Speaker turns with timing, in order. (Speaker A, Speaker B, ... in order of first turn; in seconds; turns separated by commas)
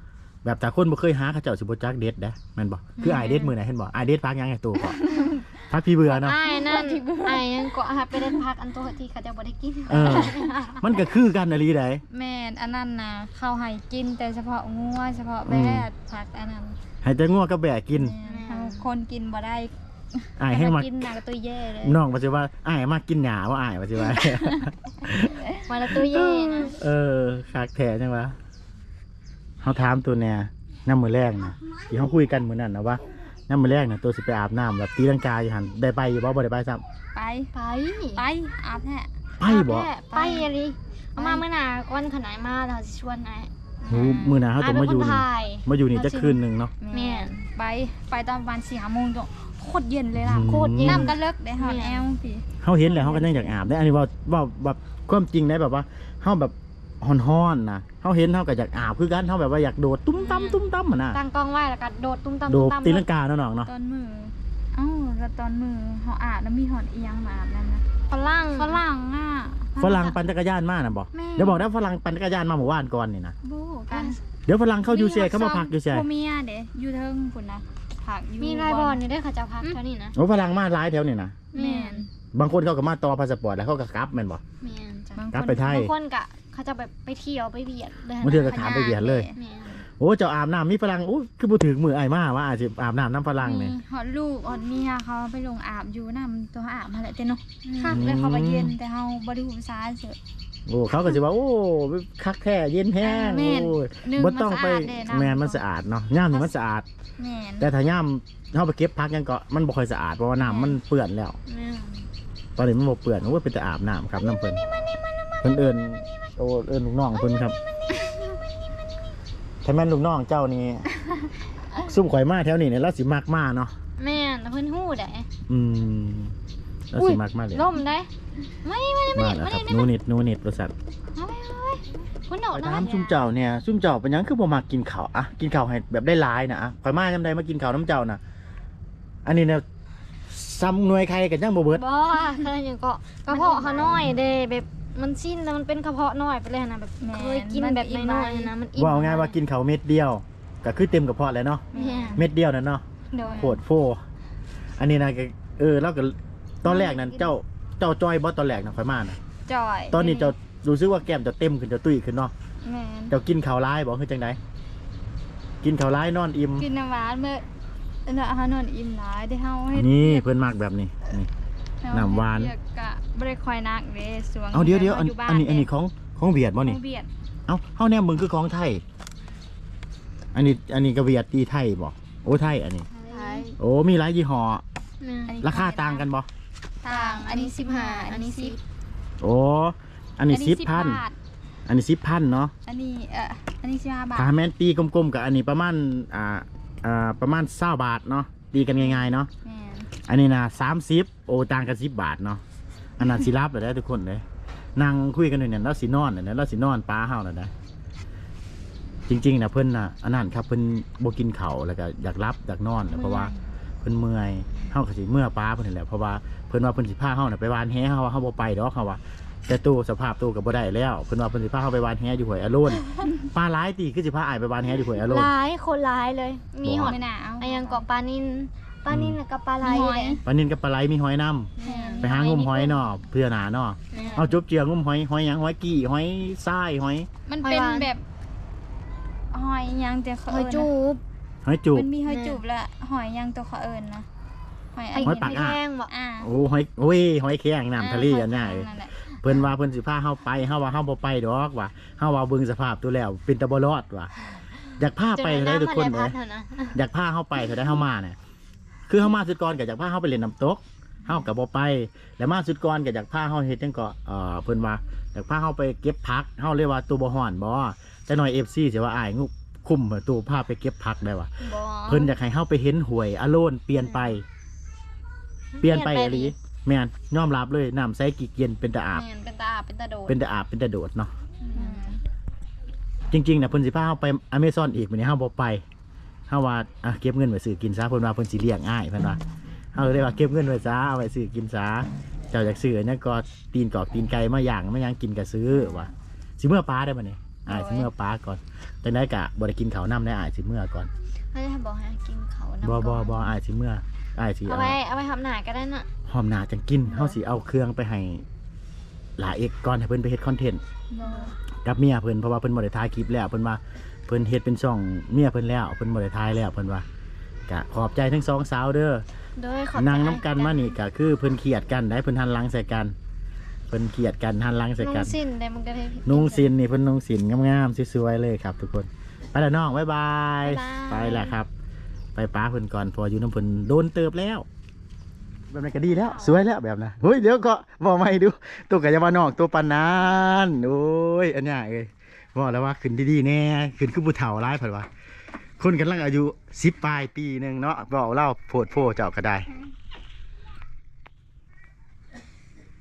Speaker A: 0.4-5.0, Speaker B: 3.0-3.5, Speaker C: 3.1-3.5, Speaker B: 4.8-5.5, Speaker A: 5.6-6.4, Speaker C: 6.1-11.1, Speaker B: 6.4-8.4, Speaker A: 9.9-12.0, Speaker B: 10.0-10.3, Speaker B: 12.1-16.8, Speaker A: 15.4-15.9, Speaker A: 17.0-18.1, Speaker B: 17.9-22.0, Speaker C: 18.2-18.8, Speaker A: 20.4-21.1, Speaker A: 21.8-28.4, Speaker B: 24.1-24.6, Speaker C: 25.6-26.8, Speaker A: 29.6-36.8, Speaker B: 37.1-37.5, Speaker C: 37.5-38.2, Speaker B: 38.1-39.1, Speaker A: 39.4-39.9, Speaker C: 39.4-43.5, Speaker B: 40.1-40.5, Speaker B: 41.2-41.4, Speaker B: 43.8-44.4, Speaker A: 43.9-46.7, Speaker C: 44.4-47.4, Speaker B: 46.8-52.4, Speaker A: 50.2-51.1, Speaker C: 50.5-52.0, Speaker A: 52.6-61.2, Speaker C: 52.9-53.3, Speaker C: 60.2-63.0, Speaker A: 62.5-63.7, Speaker B: 63.6-67.8, Speaker C: 68.1-68.8, Speaker B: 68.5-70.1, Speaker A: 69.8-73.3, Speaker C: 71.2-71.6, Speaker B: 73.4-74.2, Speaker C: 73.9-74.2, Speaker A: 74.5-76.0, Speaker B: 74.8-79.0, Speaker C: 78.4-80.2, Speaker A: 80.1-81.3, Speaker C: 81.5-82.1, Speaker B: 81.5-82.1, Speaker A: 82.3-84.4, Speaker C: 84.6-89.8, Speaker B: 85.1-85.7, Speaker A: 85.3-85.9, Speaker A: 88.2-89.3, Speaker B: 88.5-89.4, Speaker A: 90.0-93.8, Speaker B: 93.4-100.2, Speaker C: 97.7-98.0, Speaker A: 97.9-98.7, Speaker A: 100.7-106.9, Speaker B: 103.0-105.6, Speaker B: 107.2-107.7, Speaker A: 107.6-111.4, Speaker B: 110.4-110.8, Speaker C: 111.5-112.1, Speaker A: 112.5-114.6, Speaker C: 114.2-116.3, Speaker A: 115.4-117.5, Speaker C: 117.1-119.2, Speaker A: 119.6-120.9, Speaker A: 121.8-123.7, Speaker C: 124.0-125.3, Speaker A: 125.5-126.3, Speaker A: 126.9-127.7, Speaker C: 127.1-128.1, Speaker C: 128.6-129.9, Speaker A: 129.1-130.7, Speaker C: 131.1-133.2, Speaker A: 132.5-138.2, Speaker A: 139.2-139.6, Speaker A: 140.3-141.8, Speaker C: 141.7-149.4, Speaker B: 143.3-144.0, Speaker B: 147.0-148.5, Speaker A: 148.8-151.6, Speaker B: 151.7-152.2, Speaker C: 151.7-152.2, Speaker A: 152.2-154.0, Speaker B: 153.1-153.6, Speaker A: 154.8-159.2, Speaker B: 156.7-157.3, Speaker B: 159.4-160.3, Speaker A: 159.9-162.3, Speaker B: 162.6-163.1, Speaker A: 163.1-164.4, Speaker A: 165.6-166.7, Speaker B: 166.6-167.4, Speaker B: 168.1-170.3, Speaker A: 169.7-171.3, Speaker B: 171.8-175.7, Speaker A: 171.9-172.5, Speaker A: 174.5-176.8, Speaker B: 176.6-177.1, Speaker A: 177.5-178.8, Speaker A: 180.3-182.9, Speaker C: 182.9-183.6, Speaker B: 183.1-183.5, Speaker A: 183.6-184.6, Speaker C: 185.0-185.3, Speaker B: 185.2-186.1, Speaker A: 185.4-186.3, Speaker B: 186.8-188.6, Speaker C: 186.8-188.6, Speaker A: 189.2-191.0, Speaker B: 190.3-191.2, Speaker A: 191.7-192.5, Speaker B: 192.7-194.3, Speaker A: 194.1-199.3, Speaker B: 198.7-199.9, Speaker A: 200.0-202.4, Speaker A: 203.0-204.2, Speaker A: 204.8-207.5, Speaker A: 209.1-225.3, Speaker C: 212.9-213.3, Speaker C: 224.9-230.2, Speaker A: 226.6-227.0, Speaker B: 226.8-227.8, Speaker A: 228.9-229.2, Speaker B: 229.6-230.2, Speaker A: 230.2-237.1, Speaker C: 231.6-232.7, Speaker B: 231.6-232.6, Speaker B: 233.9-234.4, Speaker C: 233.9-234.2, Speaker B: 237.3-238.0, Speaker C: 237.4-237.9, Speaker B: 239.3-240.7, Speaker C: 240.3-241.0, Speaker A: 241.4-241.9, Speaker B: 241.7-244.1, Speaker C: 242.0-242.4, Speaker B: 244.7-246.3, Speaker C: 244.9-245.9, Speaker A: 245.0-245.6, Speaker A: 246.2-248.7, Speaker B: 247.8-249.2, Speaker A: 249.2-254.1, Speaker A: 254.8-256.1, Speaker C: 255.2-256.8, Speaker A: 256.7-258.1, Speaker A: 258.9-271.3, Speaker C: 271.4-272.1, Speaker A: 271.9-274.2, Speaker C: 273.8-274.2, Speaker C: 275.6-276.3, Speaker A: 275.6-279.0, Speaker C: 278.9-280.1, Speaker A: 280.1-281.1, Speaker C: 281.4-282.0, Speaker B: 281.5-282.0, Speaker A: 283.1-285.6, Speaker A: 286.3-289.2, Speaker A: 289.7-300.9, Speaker C: 295.5-295.9, Speaker C: 297.5-297.9, Speaker C: 301.3-303.3, Speaker A: 302.6-304.8, Speaker C: 304.4-305.9, Speaker A: 306.1-308.2, Speaker C: 306.9-307.2, Speaker A: 309.2-310.6, Speaker B: 310.9-311.3, Speaker C: 311.0-311.3, Speaker A: 311.6-316.8, Speaker A: 317.5-319.0, Speaker C: 319.4-320.8, Speaker A: 319.7-322.9, Speaker A: 323.7-325.1, Speaker C: 324.8-326.5, Speaker A: 326.1-331.5, Speaker C: 330.4-331.4, Speaker A: 332.1-334.4, Speaker A: 335.5-344.9, Speaker C: 336.0-336.4, Speaker A: 345.6-349.5